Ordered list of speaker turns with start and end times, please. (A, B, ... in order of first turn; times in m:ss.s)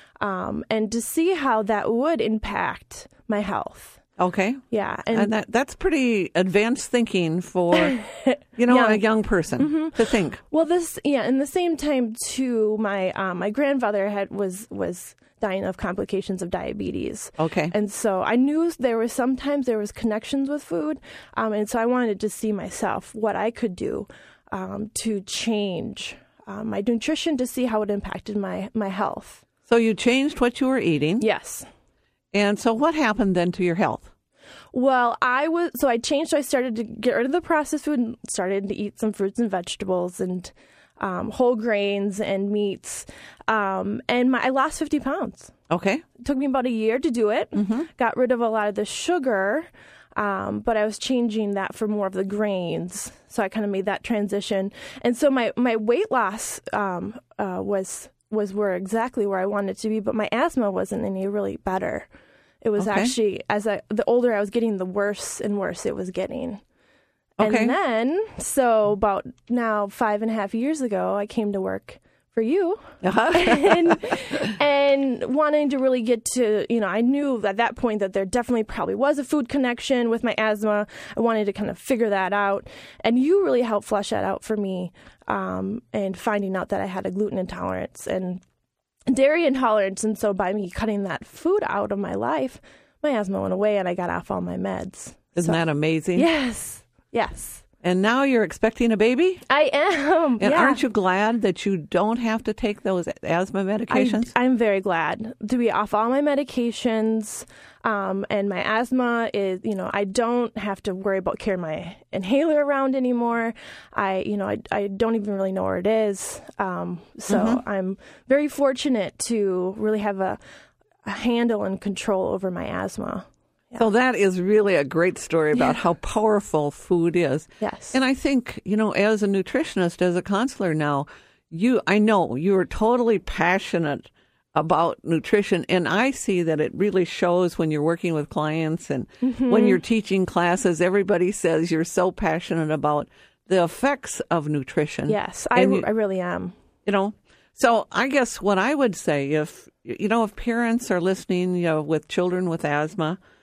0:00.2-0:04.0 A
0:04.2-0:08.0 B
0:04.7-0:05.3 A
0:07.7-0:09.0 A
0:08.6-0:10.4 B
0:09.6-0:29.4 A
0:17.4-0:17.7 B
0:29.7-0:31.3 B
0:31.2-0:31.7 A
0:32.3-0:34.1 B
0:34.7-0:45.5 A
0:45.7-0:46.0 B
0:46.2-1:02.1 A
0:47.6-0:47.9 B
1:02.6-1:06.6 A
1:02.8-1:03.1 B
1:07.4-1:28.4 A
1:07.4-1:07.8 B
1:13.0-1:14.5 B
1:29.1-1:35.6 A
1:35.4-1:36.3 B
1:36.1-1:37.6 A
1:37.8-1:39.4 B
1:39.5-1:40.8 A
1:40.4-1:44.3 B
1:43.9-2:00.4 A
1:57.3-1:57.6 B
2:01.0-2:03.8 A
2:03.8-2:25.9 B
2:07.6-2:08.0 A
2:19.2-2:19.8 A
2:25.1-2:26.6 A
2:26.9-2:33.2 B